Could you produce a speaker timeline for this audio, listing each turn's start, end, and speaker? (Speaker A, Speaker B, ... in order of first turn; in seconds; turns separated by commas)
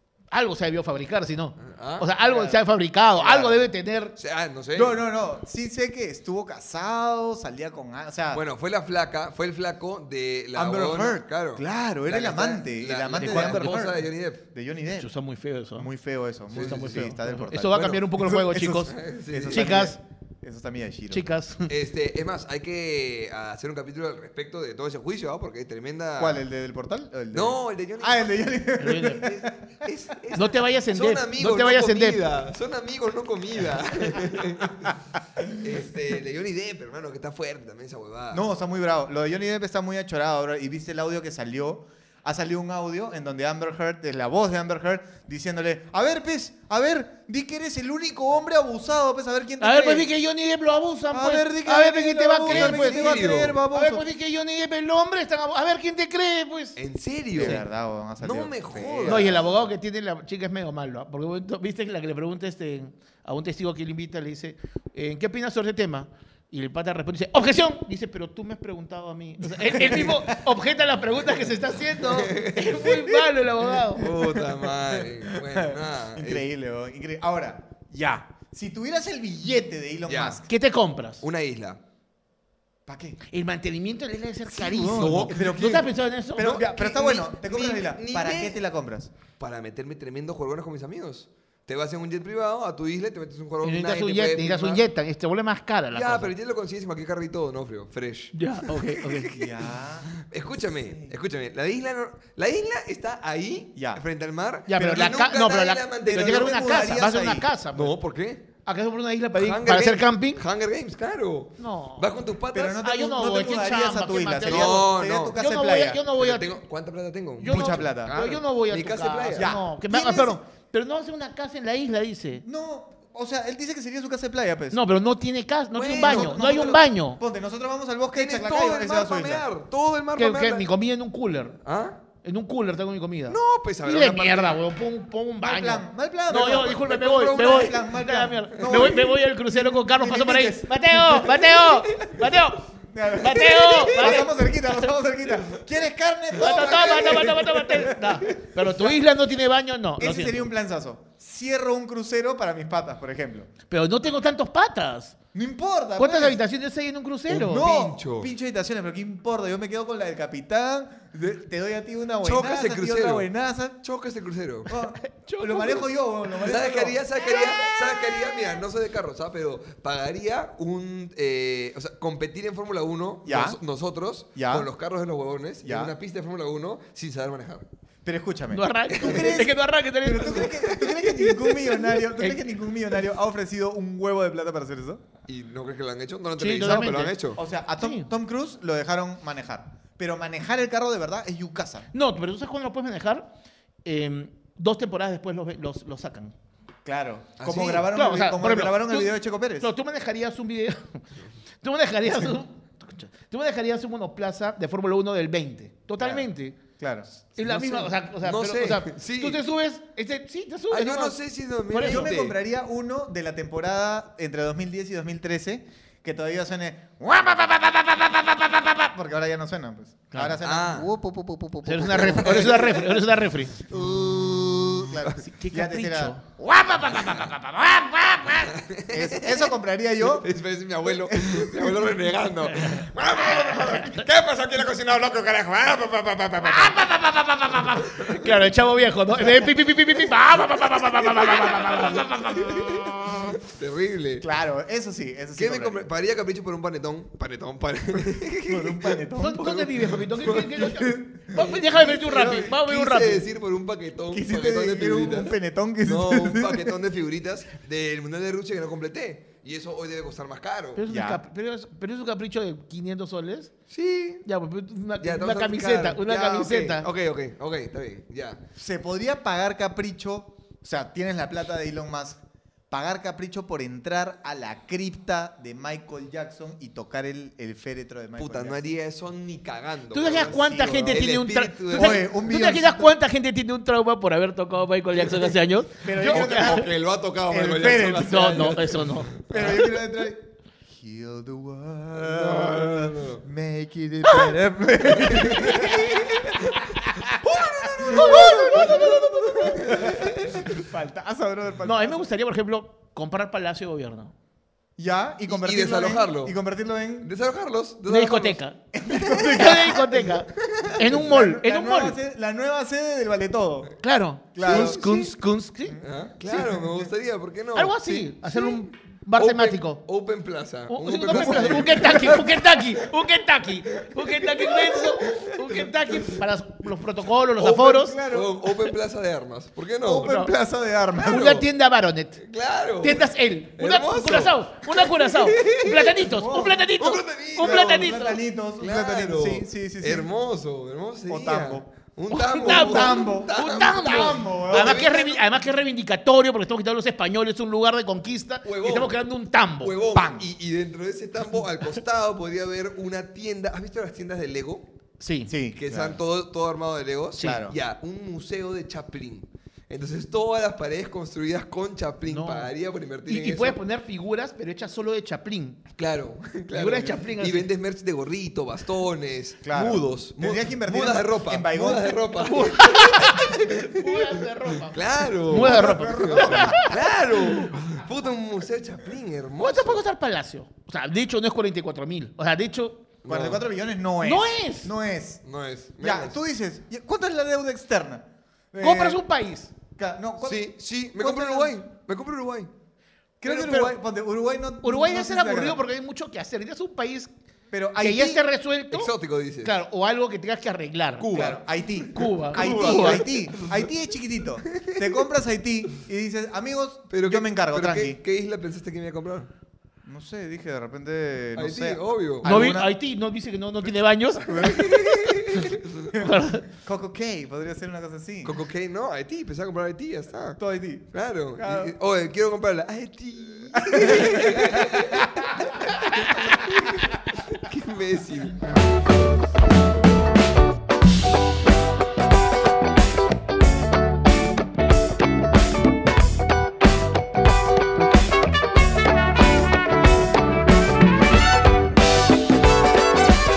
Speaker A: 0.3-4.1, Speaker B: 1.6-2.6, Speaker B: 3.1-5.0, Speaker C: 4.7-8.4, Speaker B: 8.3-14.4, Speaker C: 10.5-15.1, Speaker A: 13.2-13.8, Speaker A: 15.0-15.9, Speaker C: 15.8-21.2, Speaker B: 16.5-17.1, Speaker A: 16.5-18.9, Speaker B: 18.9-19.7, Speaker A: 19.5-20.0, Speaker A: 21.1-21.7, Speaker B: 21.7-26.4, Speaker C: 26.2-29.6, Speaker B: 27.3-28.5, Speaker A: 28.8-29.3, Speaker B: 29.2-38.4, Speaker A: 30.3-32.2, Speaker C: 38.3-50.1, Speaker A: 49.6-56.8, Speaker C: 51.1-54.0, Speaker B: 52.5-53.6, Speaker B: 56.8-57.6, Speaker C: 57.3-59.5, Speaker A: 57.4-57.6, Speaker B: 58.2-59.4, Speaker A: 59.0-74.1, Speaker C: 69.6-70.3, Speaker B: 72.0-73.3, Speaker B: 73.9-76.5, Speaker C: 74.1-80.5, Speaker B: 80.0-80.4, Speaker A: 80.5-81.2, Speaker B: 81.2-81.8, Speaker C: 82.9-83.2, Speaker A: 83.2-86.7, Speaker C: 84.5-89.1, Speaker B: 84.9-85.7, Speaker B: 86.4-88.6, Speaker B: 89.4-94.8, Speaker A: 93.6-96.3, Speaker B: 95.9-106.9, Speaker A: 98.3-99.4, Speaker C: 99.3-100.2, Speaker C: 100.9-101.2, Speaker C: 103.8-104.0, Speaker A: 104.7-107.9, Speaker C: 104.7-107.5, Speaker B: 107.7-108.4, Speaker A: 108.6-110.4, Speaker B: 109.4-112.8, Speaker A: 111.6-112.1, Speaker C: 112.5-116.0, Speaker A: 112.8-116.6, Speaker B: 114.5-115.3, Speaker B: 116.2-119.5, Speaker A: 117.4-122.4, Speaker C: 117.4-118.1, Speaker C: 119.3-120.4, Speaker C: 122.4-124.8, Speaker A: 124.7-127.2, Speaker B: 125.7-126.8, Speaker C: 126.0-129.4, Speaker B: 128.1-130.7, Speaker A: 130.2-131.6, Speaker B: 131.6-132.0, Speaker A: 132.2-144.8, Speaker B: 133.3-134.6, Speaker C: 135.4-141.3, Speaker B: 136.4-137.7, Speaker B: 138.6-138.9, Speaker B: 141.2-142.2, Speaker C: 142.9-148.2, Speaker B: 143.7-144.1, Speaker B: 145.3-145.6, Speaker A: 146.3-150.5, Speaker B: 146.5-147.5, Speaker C: 150.0-153.5, Speaker A: 153.7-155.2, Speaker C: 155.3-156.4, Speaker A: 156.0-157.7, Speaker C: 157.3-163.8, Speaker B: 157.3-158.3, Speaker B: 162.2-163.3, Speaker B: 163.8-164.7, Speaker C: 164.7-167.6, Speaker A: 165.0-165.9, Speaker B: 166.4-177.7, Speaker A: 167.3-167.7, Speaker C: 173.2-173.6, Speaker C: 174.3-174.7, Speaker C: 175.6-175.9, Speaker C: 178.0-185.0, Speaker A: 178.5-180.9, Speaker B: 178.9-179.4, Speaker A: 181.5-182.4, Speaker B: 185.3-187.4, Speaker A: 186.4-187.2, Speaker C: 187.3-191.9, Speaker A: 187.8-188.1, Speaker A: 191.9-193.3, Speaker A: 193.8-196.3, Speaker C: 196.8-199.7, Speaker B: 197.4-197.9, Speaker A: 197.9-201.1, Speaker A: 201.6-206.6, Speaker C: 206.0-206.2, Speaker C: 206.8-207.7, Speaker A: 207.3-211.2, Speaker B: 207.7-209.4, Speaker B: 210.7-212.3, Speaker A: 211.7-212.1, Speaker C: 211.8-222.7, Speaker A: 220.1-220.4, Speaker B: 220.4-220.9, Speaker A: 221.6-223.6, Speaker B: 222.0-223.0, Speaker C: 223.7-230.3, Speaker A: 225.2-226.2, Speaker B: 228.4-238.3, Speaker C: 231.1-232.0, Speaker A: 233.5-234.0, Speaker C: 236.4-237.7, Speaker A: 237.9-242.8, Speaker B: 240.7-244.2, Speaker C: 242.7-243.2, Speaker C: 244.2-245.9, Speaker B: 245.3-260.8, Speaker C: 248.5-249.4, Speaker A: 249.2-253.2, Speaker C: 252.2-252.4, Speaker C: 254.1-256.8, Speaker A: 260.8-263.5, Speaker C: 260.8-261.2, Speaker B: 263.7-264.2, Speaker A: 264.2-266.9, Speaker B: 265.0-268.4, Speaker C: 268.6-278.6, Speaker B: 278.2-282.1, Speaker A: 279.9-286.7, Speaker C: 280.1-281.1, Speaker C: 281.7-282.9, Speaker C: 285.8-286.7, Speaker B: 286.1-289.7, Speaker C: 287.3-288.6, Speaker A: 288.1-289.1, Speaker C: 289.3-302.0, Speaker B: 291.9-293.2, Speaker B: 294.9-300.6, Speaker A: 297.9-299.8, Speaker A: 301.6-304.1, Speaker C: 304.8-307.1, Speaker B: 305.3-306.4, Speaker B: 307.0-309.6, Speaker A: 307.9-308.6, Speaker C: 308.7-310.1, Speaker A: 309.2-311.9, Speaker B: 310.4-310.9, Speaker C: 310.8-313.7, Speaker A: 313.8-316.5, Speaker C: 314.3-314.8, Speaker B: 314.4-315.1, Speaker C: 315.7-316.9, Speaker B: 315.8-317.8, Speaker A: 317.5-319.8, Speaker B: 319.1-323.0, Speaker A: 320.7-328.0, Speaker C: 321.1-322.2, Speaker B: 323.6-326.2, Speaker B: 327.4-330.1, Speaker C: 327.4-328.6, Speaker C: 329.8-331.4, Speaker A: 330.0-330.3, Speaker B: 330.9-331.5, Speaker A: 331.1-332.2, Speaker B: 332.2-336.1, Speaker A: 332.8-338.2, Speaker C: 336.1-336.6, Speaker B: 336.8-338.0, Speaker C: 337.4-340.1, Speaker B: 338.6-345.3, Speaker C: 341.1-341.6, Speaker A: 342.1-349.7, Speaker C: 342.4-344.9, Speaker B: 348.4-349.0, Speaker B: 349.6-354.7, Speaker C: 349.9-350.3, Speaker A: 355.0-355.3, Speaker C: 355.3-356.0, Speaker B: 355.6-363.6, Speaker C: 357.2-357.6, Speaker A: 362.1-362.5, Speaker A: 363.1-365.6, Speaker B: 365.8-379.8, Speaker A: 366.5-367.5, Speaker C: 369.4-372.0, Speaker A: 372.2-376.7, Speaker C: 375.3-376.8, Speaker A: 379.4-382.9, Speaker B: 383.0-383.4, Speaker C: 383.1-385.2, Speaker A: 384.0-384.7, Speaker B: 385.2-386.2, Speaker C: 385.8-389.0, Speaker A: 388.6-389.5, Speaker C: 389.8-391.5, Speaker B: 390.2-392.5, Speaker C: 393.2-395.6, Speaker A: 393.2-393.6, Speaker B: 393.4-393.7, Speaker A: 394.6-397.1, Speaker C: 397.5-398.2, Speaker A: 397.8-401.1, Speaker B: 398.7-399.6, Speaker B: 401.0-403.7, Speaker C: 401.1-408.0, Speaker A: 401.9-403.0, Speaker B: 404.4-405.0, Speaker B: 406.9-409.3, Speaker C: 409.8-412.7, Speaker B: 411.4-412.6, Speaker A: 412.2-414.6, Speaker B: 414.3-415.9, Speaker C: 414.4-415.2, Speaker A: 415.3-416.5, Speaker C: 415.9-418.4, Speaker B: 418.2-420.4, Speaker C: 420.4-421.7, Speaker B: 420.9-428.5, Speaker C: 423.6-425.1